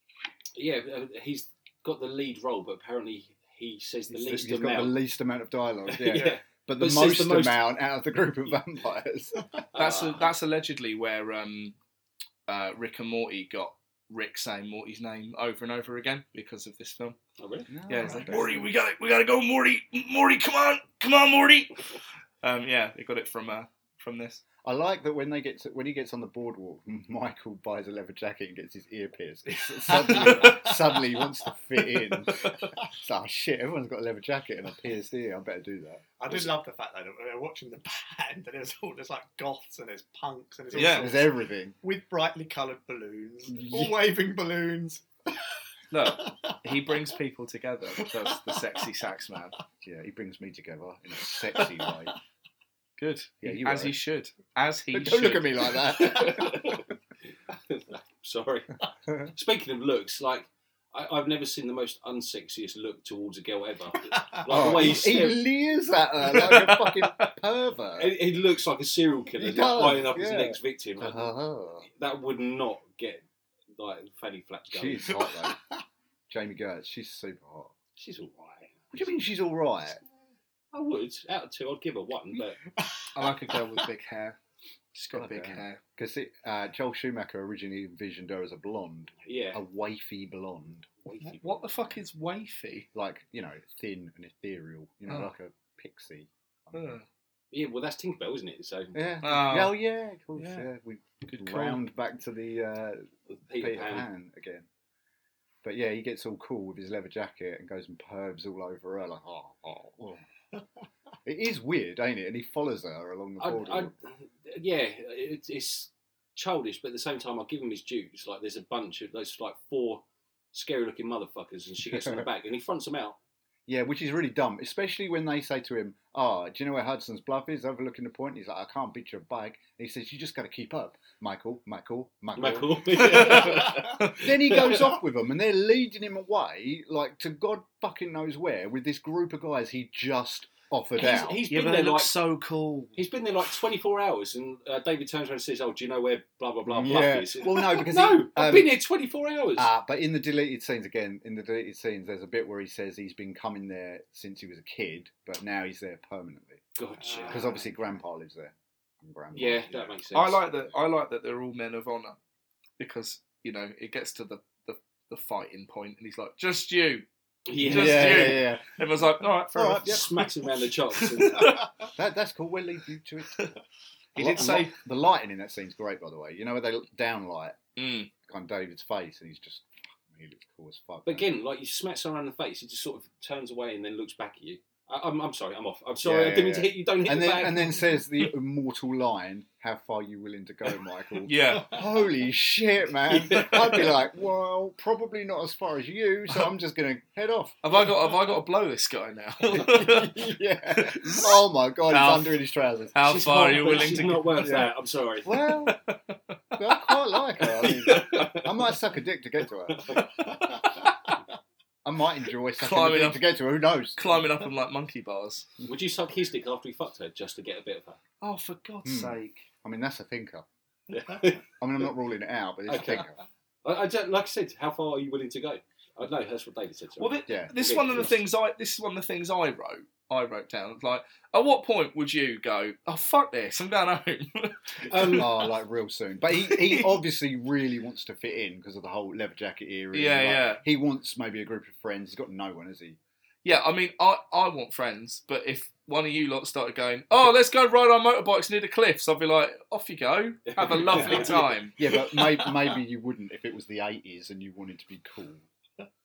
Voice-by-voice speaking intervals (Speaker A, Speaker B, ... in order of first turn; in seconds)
Speaker A: 0.6-5.0, 5.9-7.7, 9.7-10.3, 17.4-17.7, 56.0-56.8, 57.5-58.7, 59.3-65.4, 68.0-71.3, 71.8-73.3, 73.8-75.2, 78.0-79.1, 80.7-82.6, 89.2-89.6, 91.0-91.9, 97.5-99.0, 103.3-104.1, 113.4-123.2, 132.3-134.9, 140.9-142.2, 143.0-149.7, 156.8-157.6, 159.3-160.4, 167.5-168.4, 169.8-171.6, 181.1-187.9, 193.1-194.0, 203.0-205.4, 207.4-208.5, 209.7-210.1, 215.7-218.0, 220.9-221.4, 222.7-223.1, 223.6-228.2, 234.9-235.3, 250.5-251.5
Speaker B: 4.1-9.4, 17.7-18.7, 24.6-36.5, 40.7-41.8, 43.5-43.9, 49.8-52.1, 53.4-54.0, 54.9-56.9, 64.5-68.2, 69.4-71.9, 74.7-75.6, 76.3-77.7, 78.9-80.0, 85.1-90.9, 92.9-97.0, 98.9-104.7, 105.6-110.2, 111.2-113.9, 121.9-122.3, 123.7-141.4, 146.7-148.8, 149.6-156.6, 157.3-160.0, 167.6-168.8, 169.5-170.1, 172.0-173.4, 174.2-177.6, 178.3-181.3, 186.0-197.6, 199.5-203.0, 204.4-204.7, 205.2-205.8, 206.6-209.9, 211.8-214.2, 218.8-220.4, 221.5-223.2, 227.3-228.1, 235.0-243.0, 250.9-255.4
Speaker C: 6.1-6.4, 29.6-31.3, 32.0-32.9, 36.2-45.0, 46.0-46.6, 48.0-48.6, 51.3-52.0, 64.1-64.8, 75.2-75.7, 82.8-83.8, 133.3-133.9, 157.0-157.7, 171.5-171.9
Speaker D: 9.8-11.8, 12.5-17.2, 17.9-24.4, 30.1-30.4, 40.7-41.1, 45.9-49.6, 53.0-56.7, 66.3-67.3, 83.1-84.4, 84.9-85.8, 91.3-92.9, 96.7-97.0, 99.2-99.7, 101.3-101.8, 133.0-133.4, 141.5-143.0, 160.1-162.2, 162.8-167.1, 167.6-171.7, 174.2-174.8, 177.8-178.1, 191.2-191.8, 197.6-202.4, 202.9-204.7, 205.6-207.0, 207.6-208.1, 212.6-213.2, 214.0-215.5, 218.2-219.5, 227.0-235.5, 236.5-236.9, 239.9-240.6, 243.4-251.8